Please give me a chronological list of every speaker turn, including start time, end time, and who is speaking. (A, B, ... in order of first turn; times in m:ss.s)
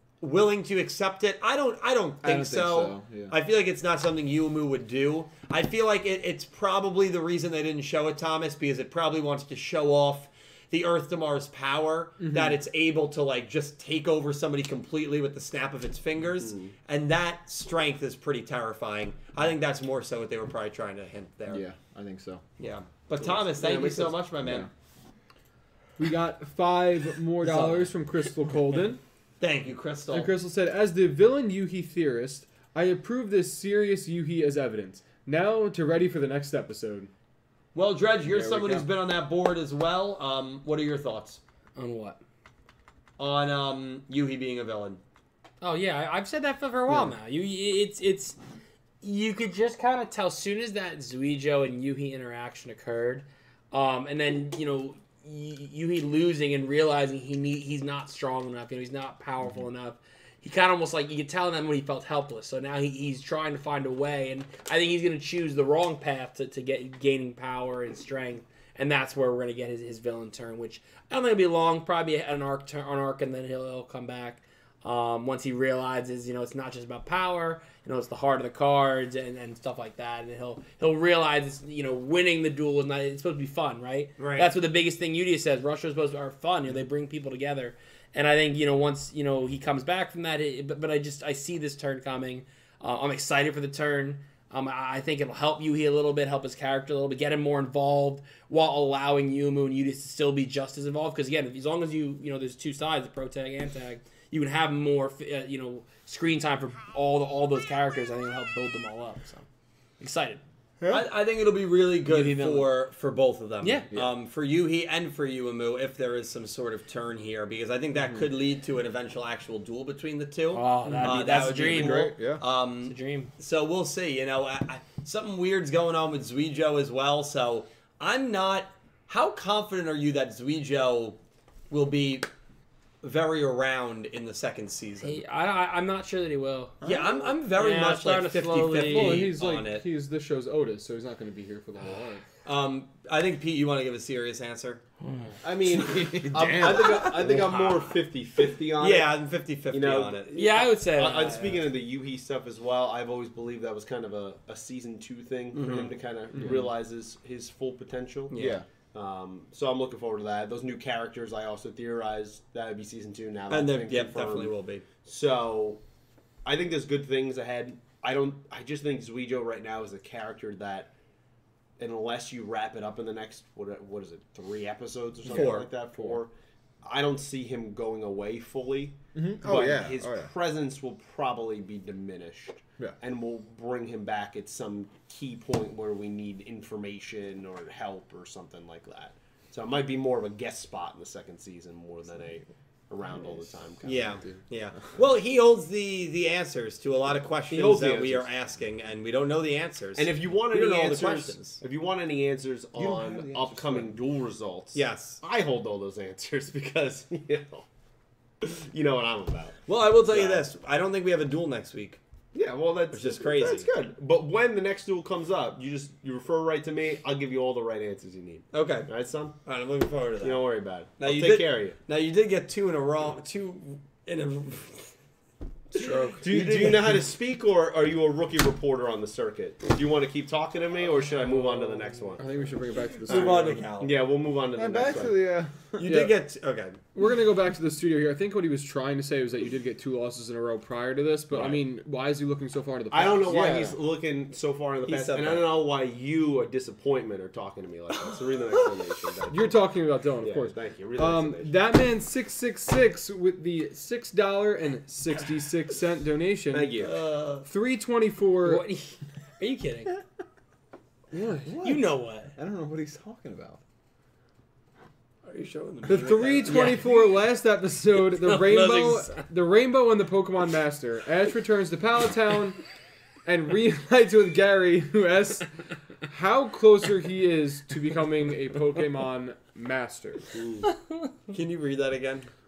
0:00.2-0:21.6 A
0:02.2-0:03.3 B
0:16.4-0:16.7 C
0:21.5-0:22.4 B
0:22.6-0:24.7 A
0:23.2-0:24.2 C
0:24.4-0:24.7 B
0:26.0-0:29.0 D
0:27.4-0:27.8 A
0:29.4-0:30.3 A
0:30.1-0:37.1 D
0:37.7-0:41.4 A
0:38.3-0:38.9 B
0:41.8-0:42.2 E
0:43.2-0:45.0 A
0:45.6-0:48.4 E
0:49.0-1:49.4 E
1:24.2-1:24.5 A
1:50.0-1:50.4 E
1:50.8-1:51.1 B
1:50.9-2:11.2 A
1:52.0-1:52.7 E
1:58.0-1:58.2 B
2:00.5-2:02.1 E
2:01.7-2:02.4 B
2:02.8-2:03.3 E
2:11.7-2:12.3 A
2:13.0-2:15.2 A
2:15.0-2:16.8 E
2:16.8-2:17.2 B
2:16.8-2:19.8 A
2:17.5-2:19.3 E
2:18.9-2:22.2 D
2:22.4-2:24.8 A
2:25.4-2:29.1 C
2:25.6-2:27.5 B
2:26.8-2:27.8 A
2:28.8-2:30.4 A
2:29.7-2:38.3 C
2:30.3-2:31.6 E
2:35.5-2:35.9 A
2:38.3-2:38.6 A
2:38.4-2:38.6 B
2:38.9-2:45.8 C
2:43.5-2:44.8 A
2:46.4-2:50.9 C
2:51.8-2:56.3 C
2:55.2-2:55.7 A
2:55.3-2:56.2 B
2:56.8-3:14.1 C
2:59.1-3:00.3 B
3:13.8-3:21.6 A
3:17.5-3:18.3 C
3:19.9-3:27.6 C
3:22.8-3:23.9 B
3:24.7-3:25.2 A
3:28.4-3:30.5 C
3:29.7-3:32.0 A
3:32.3-3:39.3 C
3:32.9-3:33.7 A
3:38.5-3:38.9 A
3:39.4-3:40.4 A
3:40.2-3:41.8 C
3:41.0-3:44.9 A
3:45.7-3:47.0 A
3:45.7-3:52.2 C
3:52.2-3:53.6 D
3:53.1-3:54.0 A
3:53.1-3:55.2 C
3:54.5-3:55.8 B
3:55.8-3:56.8 A
3:55.8-3:56.1 D
3:56.9-4:03.6 D
4:02.9-4:09.6 C
4:03.2-4:03.8 B
4:04.8-4:05.6 A
4:09.3-4:16.8 D
4:10.2-4:11.6 C
4:16.5-4:17.0 C
4:16.8-4:17.5 A
4:17.4-4:18.6 D
4:18.4-4:20.0 E
4:21.1-4:21.6 D
4:21.4-4:23.6 B
4:21.6-4:22.3 E
4:25.2-4:26.8 A
4:25.8-4:32.6 D
4:26.4-4:26.9 E
4:28.1-4:29.2 E
4:33.2-4:35.5 D
4:36.1-4:40.3 D
4:40.3-4:40.7 C
4:41.3-4:42.3 A